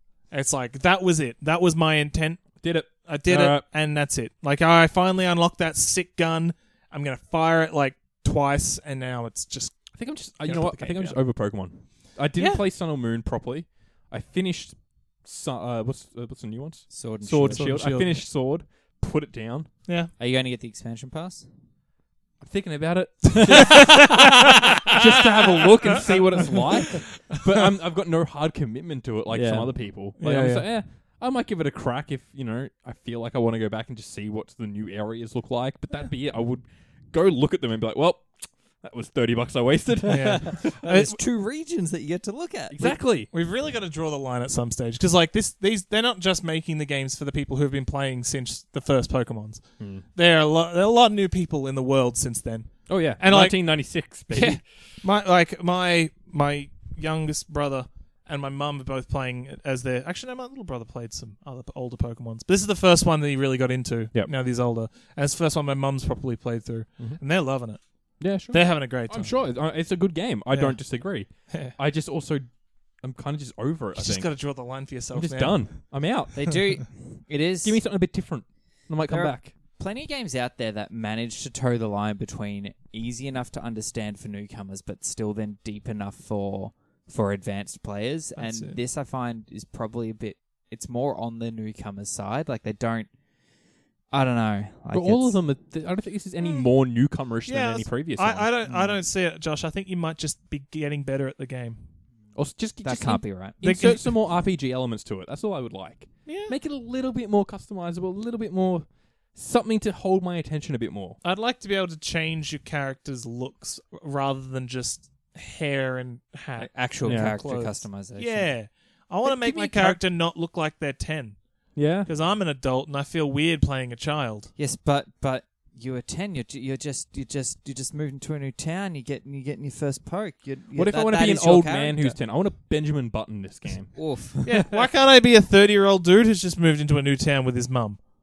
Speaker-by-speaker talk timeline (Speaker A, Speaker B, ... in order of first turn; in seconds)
Speaker A: 0.3-11.2, 17.5-18.2, 23.6-23.9, 30.2-30.6, 40.1-41.2, 43.3-69.4, 70.5-71.7, 74.0-75.8, 88.3-88.8, 96.4-96.7, 97.5-101.8, 103.6-104.1, 106.2-106.5, 111.2-124.5, 134.4-138.0
Speaker B: 2.6-3.6, 9.9-19.7, 22.4-40.7, 42.7-43.3, 49.8-50.0, 52.9-54.8, 68.2-74.3, 75.1-76.7, 77.6-79.5, 94.9-98.5, 102.3-111.2, 117.0-117.4, 119.6-119.9, 121.7-122.1, 130.7-134.7
Speaker C: 16.9-17.8, 20.2-21.5, 29.3-29.9, 40.1-43.0, 76.3-77.8, 79.1-93.1, 94.1-95.4, 98.7-99.0, 102.8-103.6, 116.5-118.5, 119.3-120.0, 124.6-132.2, 133.9-134.4